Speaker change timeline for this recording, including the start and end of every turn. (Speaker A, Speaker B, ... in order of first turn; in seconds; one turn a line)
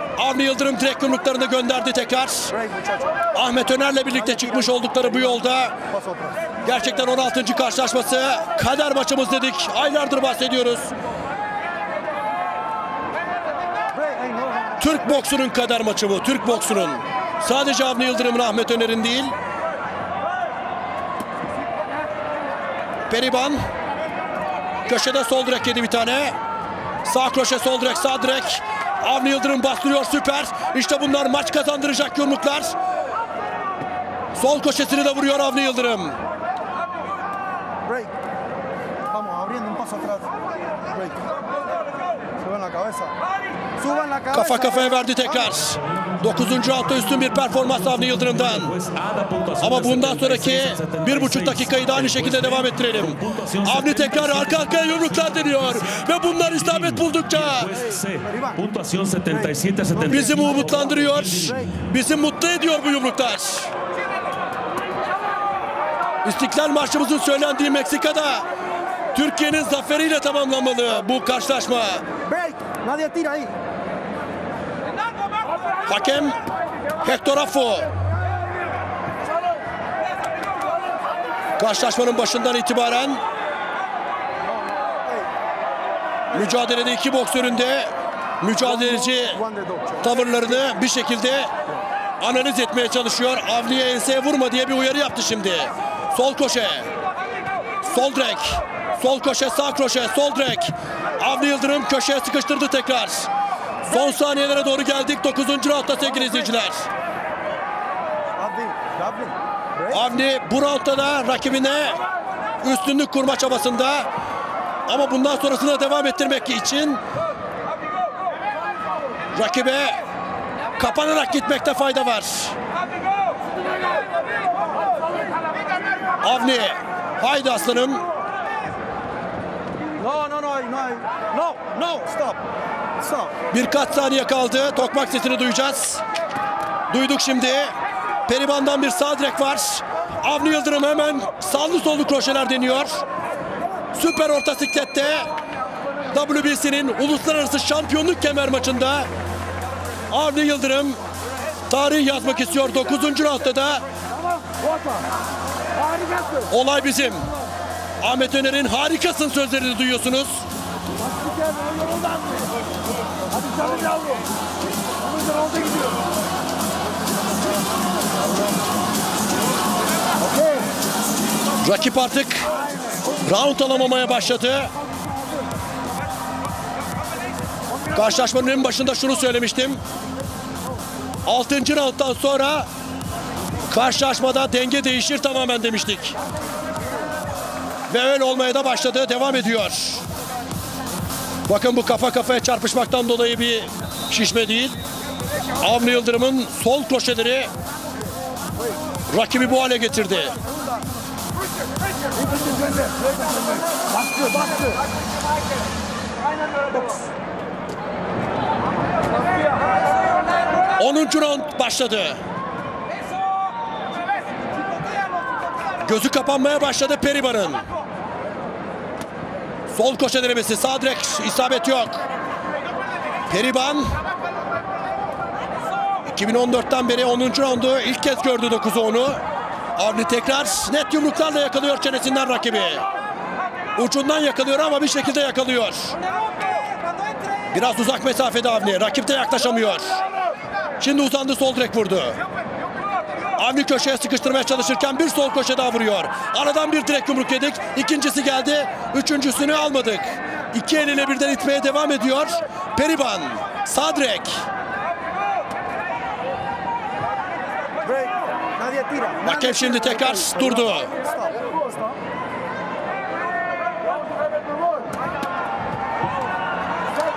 Speaker A: 0.2-2.5
Speaker B: 2.5-3.2
Speaker A: 3.3-5.7
Speaker B: 4.1-6.6
Speaker A: 6.6-10.9
Speaker B: 13.9-15.1
Speaker A: 14.8-19.3
Speaker A: 23.1-23.6
Speaker A: 24.9-26.4
Speaker A: 27.0-32.8
Speaker A: 34.4-36.1
Speaker B: 37.9-38.1
Speaker B: 39.1-41.2
Speaker B: 42.4-43.2
Speaker B: 43.8-45.1
Speaker A: 44.3-48.7
Speaker C: 47.6-61.7
Speaker A: 49.6-57.7
Speaker B: 57.7-58.6
Speaker B: 59.3-61.7
Speaker A: 60.1-63.7
Speaker A: 66.2-68.5
Speaker A: 69.1-72.0
Speaker B: 72.2-73.6
Speaker A: 75.8-76.4
Speaker A: 77.0-77.9
Speaker A: 81.6-83.2
Speaker B: 84.4-85.3
Speaker A: 86.3-89.4
Speaker B: 88.6-90.3
Speaker A: 90.0-91.5
Speaker A: 92.2-96.9
Speaker A: 97.8-103.3
Speaker A: 103.9-106.8
Speaker B: 108.3-110.0
Speaker A: 109.9-112.0
Speaker A: 112.6-114.1
Speaker A: 114.9-117.0
Speaker A: 119.3-120.0
Speaker A: 120.8-122.5
Speaker A: 126.2-128.0
Speaker B: 130.0-132.4
Speaker B: 133.0-133.3
Speaker A: 133.5-136.0
Speaker A: 136.9-137.7
Speaker A: 138.3-143.0
Speaker A: 143.9-145.3
Speaker A: 146.1-149.1
Speaker A: 150.1-151.0
Speaker A: 151.7-153.8
Speaker A: 156.5-157.2
Speaker A: 158.0-160.4
Speaker B: 163.5-164.2
Speaker A: 171.6-172.5
Speaker A: 173.2-174.7
Speaker A: 177.9-179.8
Speaker A: 181.2-182.7
Speaker A: 183.7-186.1
Speaker A: 187.9-190.0
Speaker A: 191.5-194.8
Speaker A: 195.6-197.5
Speaker A: 199.1-200.3
Speaker B: 200.4-200.8
Speaker B: 206.7-207.0
Speaker A: 210.8-212.2
Speaker A: 215.8-217.6
Speaker A: 219.7-222.0
Speaker A: 223.3-223.9
Speaker A: 226.1-229.2
Speaker A: 229.8-232.8
Speaker A: 233.8-235.9
Speaker A: 237.5-240.0
Speaker A: 240.8-242.2
Speaker A: 243.4-254.4
Speaker B: 257.8-262.0
Speaker A: 259.2-260.9